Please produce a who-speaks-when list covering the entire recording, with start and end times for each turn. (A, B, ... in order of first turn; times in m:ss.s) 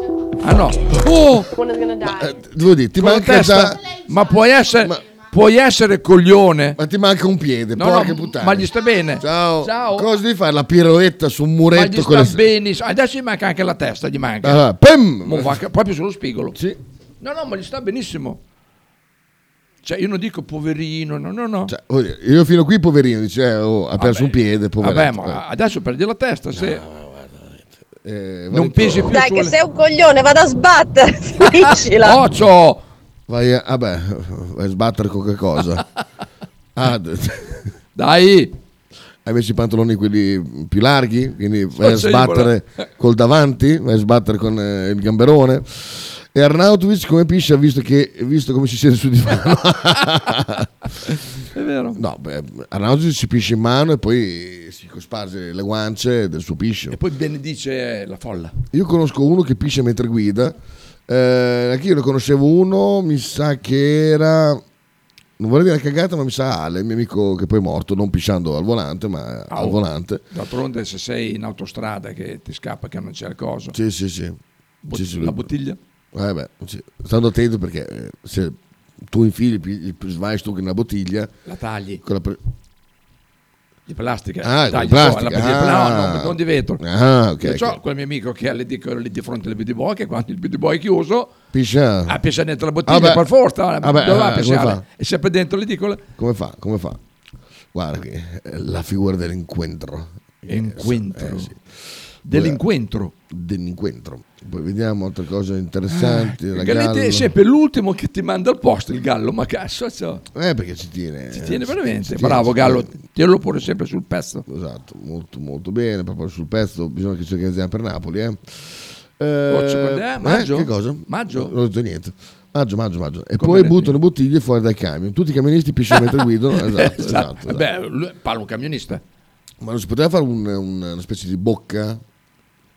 0:00.4-0:01.5 A
0:01.5-0:02.4 B
0:02.1-0:03.8 C
0:03.0-0:06.8 A
0:06.8-0:08.7 C
0:07.8-0:10.1 A
0:09.2-0:12.5 C
0:11.7-0:14.6 A
0:14.4-0:15.6 C
0:15.2-0:16.6 A
0:17.2-0:18.4 A
0:19.8-0:21.7 A
0:21.7-0:25.4 C
0:24.0-0:26.8 A
0:26.5-0:29.2 C
0:28.5-0:29.5 A
0:29.1-0:32.2 B
0:31.6-0:32.8 A
0:33.3-0:35.8 C
0:36.8-0:37.7 C
0:38.0-0:38.5 A
0:39.2-0:50.7 C
0:41.8-0:42.5 A
0:51.5-0:52.0 A
0:52.0-0:57.0 C
0:56.9-0:58.5 A
0:58.7-1:00.6 C
1:01.1-1:04.6 C
1:05.4-1:10.2 C
1:09.5-1:13.7 A
1:13.7-1:14.4 C
1:14.8-1:15.8 A
1:14.9-1:15.5 C
1:16.1-1:18.6 C
1:19.1-1:21.3 C
1:21.4-1:22.0 A
1:22.0-1:22.4 C
1:23.9-1:26.8 A
1:24.4-1:27.8 C
1:27.4-1:31.3 A
1:31.5-1:32.2 C
1:32.1-1:36.0 A
1:32.9-1:33.3 C
1:33.8-1:34.8 C
1:36.2-1:37.0 C
1:37.7-1:41.6 C
1:40.5-1:41.5 A
1:42.2-1:43.1 A
1:42.3-1:42.6 C
1:43.3-1:47.3 C
1:45.9-1:50.2 A
1:50.3-1:52.9 C
1:51.3-1:54.4 A
1:54.5-2:07.6 C
1:59.5-2:01.5 A
2:03.4-2:04.0 A
2:05.9-2:09.0 A
2:09.6-2:12.0 C